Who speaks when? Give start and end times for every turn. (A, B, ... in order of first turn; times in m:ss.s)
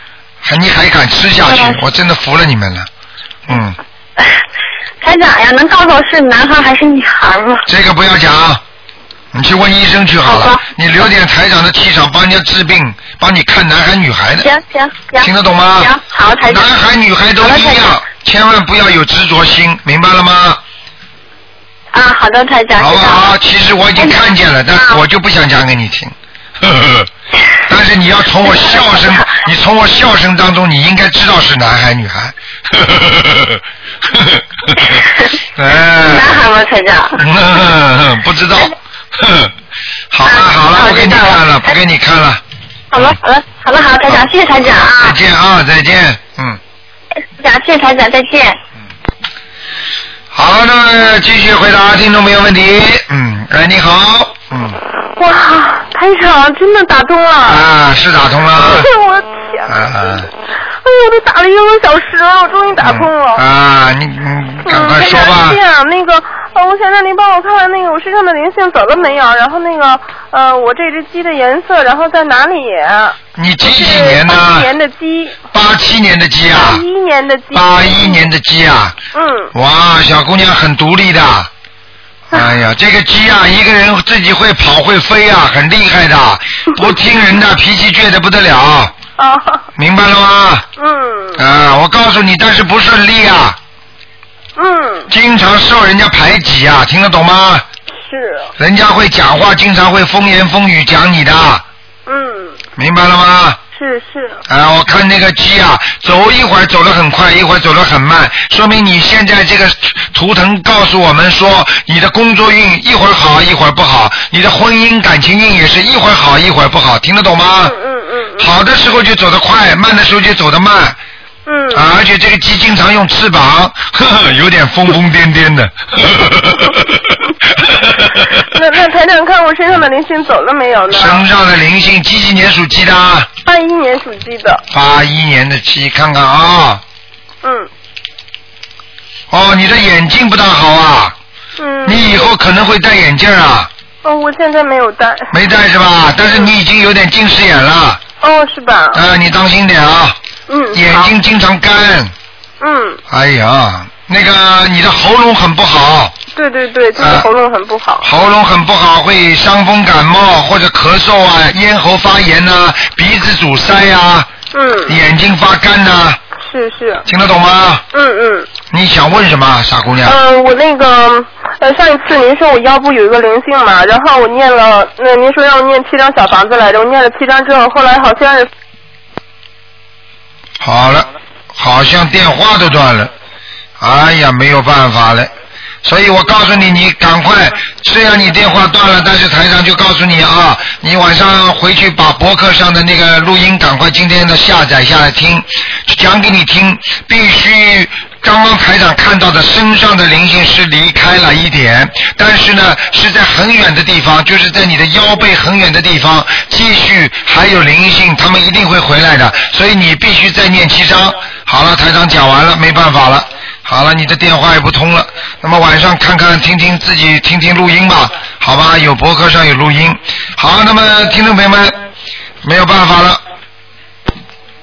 0:00.4-0:02.9 A
0:01.4-0:01.8 B
0:03.5-0:03.8 A
0:05.0-0:07.7 B
0:07.6-0:08.6 A
0:09.3-0:14.5 A
0:10.2-0:10.6 B
0:14.4-0:16.7 B
0:15.2-0:20.6 A
0:17.4-0:17.9 B
0:21.9-0:23.3 B
0:22.8-0:27.1 A
0:24.0-0:25.0 B
0:27.7-0:35.0 A
0:28.5-0:29.2 B
0:34.9-0:35.2 B
0:35.5-0:36.4 A
0:36.0-0:37.2 B
0:37.2-0:39.5 A
0:40.1-0:42.4 A
0:40.2-0:41.6 B
0:42.9-0:45.2 B
0:44.1-0:46.6 A
0:47.3-0:48.6 B
0:50.3-0:54.8 A
0:55.1-0:57.6 C
0:57.4-0:58.9 A
0:58.5-1:03.4 C
0:59.7-1:00.3 A
1:02.8-1:05.6 A
1:04.6-1:15.4 C
1:13.4-1:14.7 A
1:15.5-1:16.8 A
1:16.5-1:18.3 C
1:17.5-1:19.0 A
1:19.1-1:19.5 C
1:19.5-1:21.5 A
1:22.3-1:28.9 A
1:29.2-1:29.6 C
1:29.8-1:30.6 A
1:30.8-1:31.4 C
1:31.4-1:33.6 A
1:34.6-1:35.1 C
1:35.1-1:37.6 A
1:38.0-1:38.5 C
1:38.6-1:41.6 A
1:42.0-1:42.6 C
1:42.8-1:43.6 A
1:43.7-1:44.4 C
1:44.5-1:57.7 A
1:57.6-1:58.5 C
1:58.4-2:01.0 A
2:01.4-2:01.9 C
2:01.7-2:08.4 A
2:08.4-2:11.2 C
2:10.9-2:13.3 A
2:13.4-2:14.6 C
2:14.7-2:16.8 A
2:17.4-2:17.7 C
2:19.3-2:21.1 A
2:21.6-2:22.3 C
2:21.8-2:23.7 A
2:24.0-2:25.3 C
2:25.3-2:28.0 A
2:28.2-2:29.0 C
2:28.9-2:30.2 A
2:30.5-2:31.1 C
2:30.7-2:32.1 A
2:32.6-2:33.0 C
2:33.1-2:36.1 A
2:36.3-2:38.1 C
2:37.0-2:37.3 A
2:38.0-2:44.3 A
2:44.5-2:45.0 C
2:44.9-2:46.2 A
2:46.4-2:47.0 C
2:47.0-2:47.8 A
2:47.9-2:48.5 C
2:48.7-2:50.2 A
2:50.0-2:58.5 C
3:00.6-3:03.1 A
3:03.8-3:05.3 A
3:05.8-3:41.8 A
3:42.4-3:43.2 A